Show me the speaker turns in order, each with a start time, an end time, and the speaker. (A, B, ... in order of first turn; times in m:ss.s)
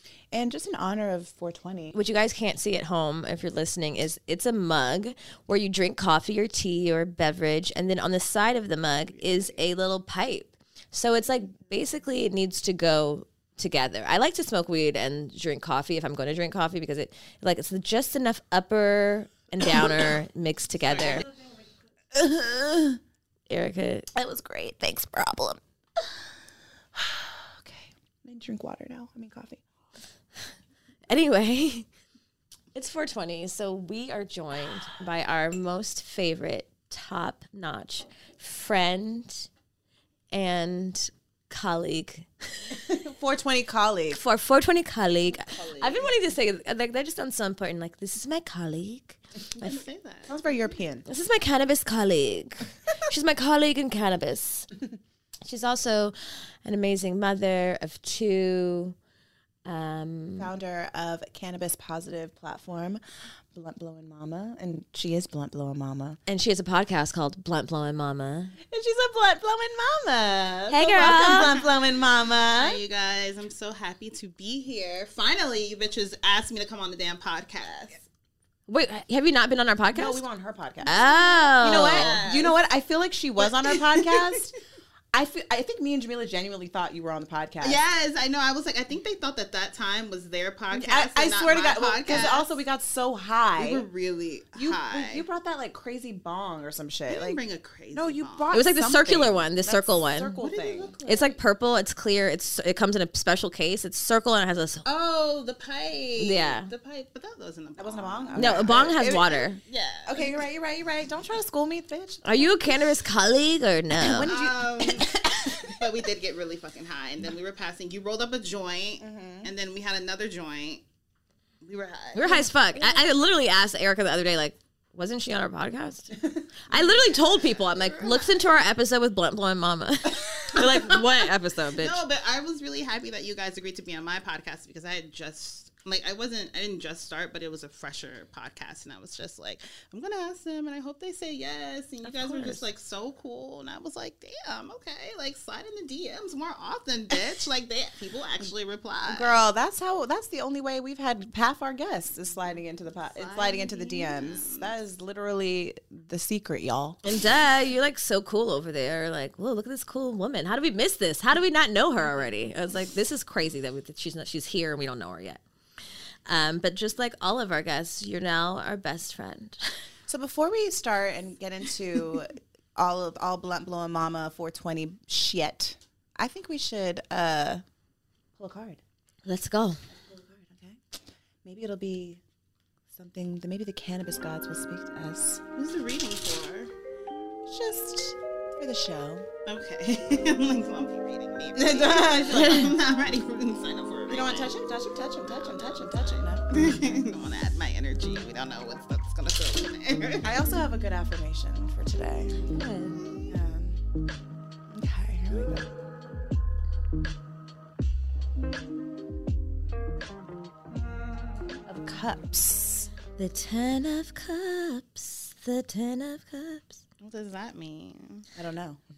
0:00.3-0:02.0 A
0:01.9-0:21.2 B
0:09.2-0:09.6 C
0:20.8-0:23.0 A
0:23.5-0:24.1 B
0:24.1-0:25.6 A
0:27.0-0:29.6 A
0:31.1-0:31.9 B
0:32.7-0:39.5 B
0:40.3-0:42.8 B
0:42.8-0:44.2 A
0:44.1-0:49.8 B
0:45.3-0:46.1 C
0:49.6-0:50.5 C
0:50.3-0:51.1 A
0:51.1-0:54.7 B
0:55.4-0:59.0 B
0:59.6-1:00.5 B
1:00.4-1:06.2 A
1:06.3-1:08.6 B
1:08.7-1:12.8 A
1:10.7-1:11.5 B
1:11.0-1:11.7 C
1:12.5-1:18.0 C
1:18.7-1:20.2 B
1:19.9-1:24.6 A
1:20.8-1:22.2 B
1:21.6-1:22.6 C
1:23.4-1:24.4 C
1:25.1-1:27.8 A
1:27.6-1:32.5 C
1:30.7-1:33.9 A
1:33.6-1:35.2 C
1:34.5-1:37.4 A
1:37.1-1:38.6 C
1:37.9-1:41.4 A
1:38.5-1:40.4 B
1:40.4-1:41.2 C
1:41.1-1:44.8 B
1:44.8-1:48.8 C
1:46.2-1:46.7 B
1:47.8-1:52.9 A
1:48.4-1:49.6 B
1:49.7-1:50.2 C
1:52.2-1:54.3 B
1:54.0-1:55.9 A
1:54.2-2:00.8 C
1:59.0-1:59.5 A
2:01.6-2:02.4 C
2:02.1-2:06.1 B
2:02.3-2:03.0 A
2:06.3-2:06.9 A
2:06.7-2:12.0 B
2:10.5-2:11.0 C
2:11.8-2:29.4 C
2:22.0-2:22.6 B
2:29.1-2:37.0 A
2:33.1-2:34.7 C
2:37.0-2:45.4 B
2:46.3-2:49.6 B
2:50.1-2:57.6 A
2:58.4-2:58.8 A
2:59.2-2:59.8 B
3:00.0-3:00.8 A
3:01.4-3:02.2 A
3:02.9-3:05.4 A
3:05.6-3:06.7 C
3:07.5-3:09.3 A
3:09.5-3:14.5 C
3:11.6-3:12.8 A
3:14.1-3:16.5 A
3:15.3-3:20.4 C
3:20.2-3:22.5 A
3:22.5-3:23.0 B
3:22.9-3:23.4 C
3:23.3-3:23.8 A
3:24.7-3:25.8 A
3:31.6-3:32.9 A
3:33.2-3:36.8 B
3:37.0-3:38.2 C
3:38.4-3:38.8 A